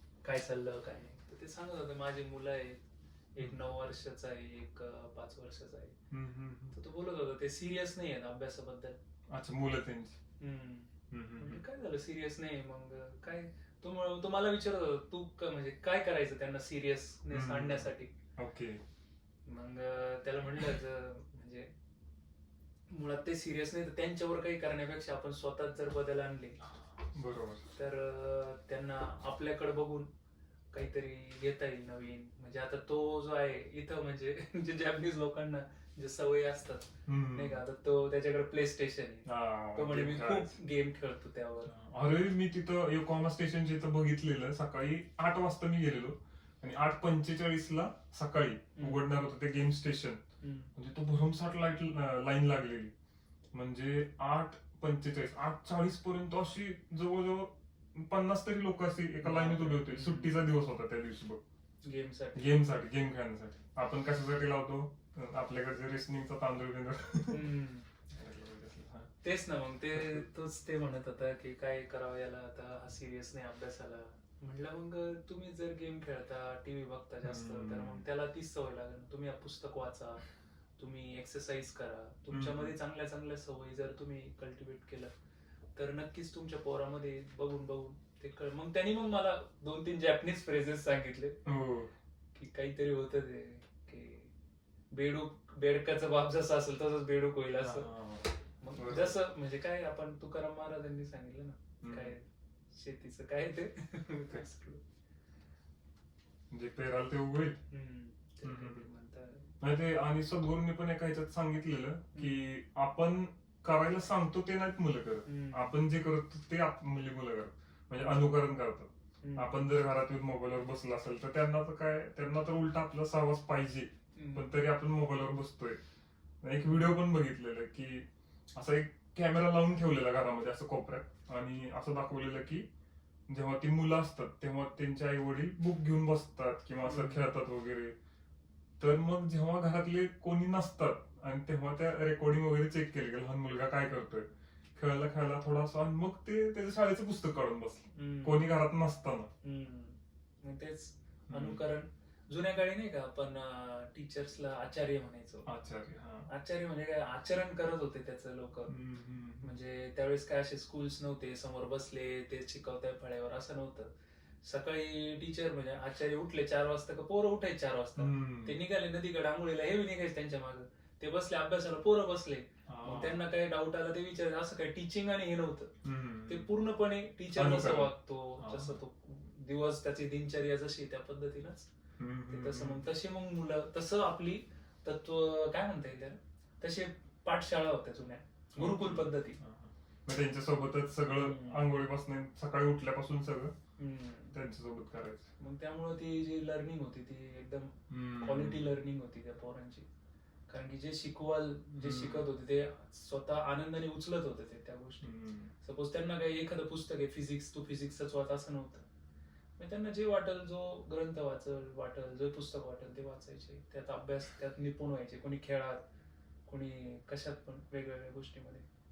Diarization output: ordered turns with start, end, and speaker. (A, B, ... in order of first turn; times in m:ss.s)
0:00.2-0:02.8 A
0:03.3-0:06.0 A
0:06.1-0:06.8 B
0:06.7-0:09.0 A
0:09.3-0:10.2 B
0:10.4-0:18.1 A
0:11.1-0:11.6 B
0:17.3-0:18.8 B
0:19.4-0:21.7 A
0:22.9-0:26.6 A
0:27.0-0:27.6 B
0:27.7-0:30.1 A
0:30.7-0:41.7 A
0:37.1-0:37.6 B
0:39.2-0:40.5 B
0:41.6-0:50.2 B
0:48.8-0:49.0 A
0:50.4-0:50.7 A
0:50.8-0:52.9 B
0:53.5-1:01.4 B
0:59.2-1:00.5 A
1:01.8-1:02.5 A
1:02.3-1:07.4 B
1:07.3-1:07.9 A
1:08.1-1:09.1 B
1:09.2-1:20.2 A
1:09.9-1:10.2 B
1:17.2-1:18.0 B
1:20.8-1:25.1 A
1:22.3-1:22.7 B
1:25.8-1:31.4 A
1:31.4-1:31.9 B
1:32.3-1:34.3 A
1:34.9-1:37.9 A
1:37.6-1:39.2 B
1:38.6-1:44.8 A
1:41.8-1:42.1 B
1:46.5-1:47.6 B
1:47.7-1:49.5 A
1:48.4-1:48.8 B
1:49.6-2:05.8 B
1:52.1-1:52.4 A
1:55.2-1:55.7 A
1:59.2-1:59.6 A
2:04.2-2:04.5 A
2:06.4-2:12.6 B
2:13.3-2:17.9 B
2:16.8-2:17.3 A
2:18.8-2:29.3 B
2:27.9-2:28.5 A
2:29.4-2:35.5 A
2:31.3-2:31.6 B
2:35.4-2:36.3 B
2:36.3-2:38.7 A
2:38.7-2:39.5 B
2:39.4-2:55.7 A
2:48.0-2:48.6 B
2:52.7-2:53.2 B
2:55.8-2:56.5 B
2:56.3-3:01.7 A
2:57.3-2:58.8 B
3:02.0-3:02.8 B
3:02.3-3:09.4 A
3:08.6-3:13.5 B
3:11.2-3:11.7 A
3:13.8-3:14.4 A
3:14.3-3:15.3 B
3:15.4-3:19.9 A
3:17.9-3:18.7 B
3:20.5-3:28.8 A
3:21.8-3:22.3 B
3:25.0-3:25.5 B
3:29.6-3:35.8 A
3:36.4-3:38.6 A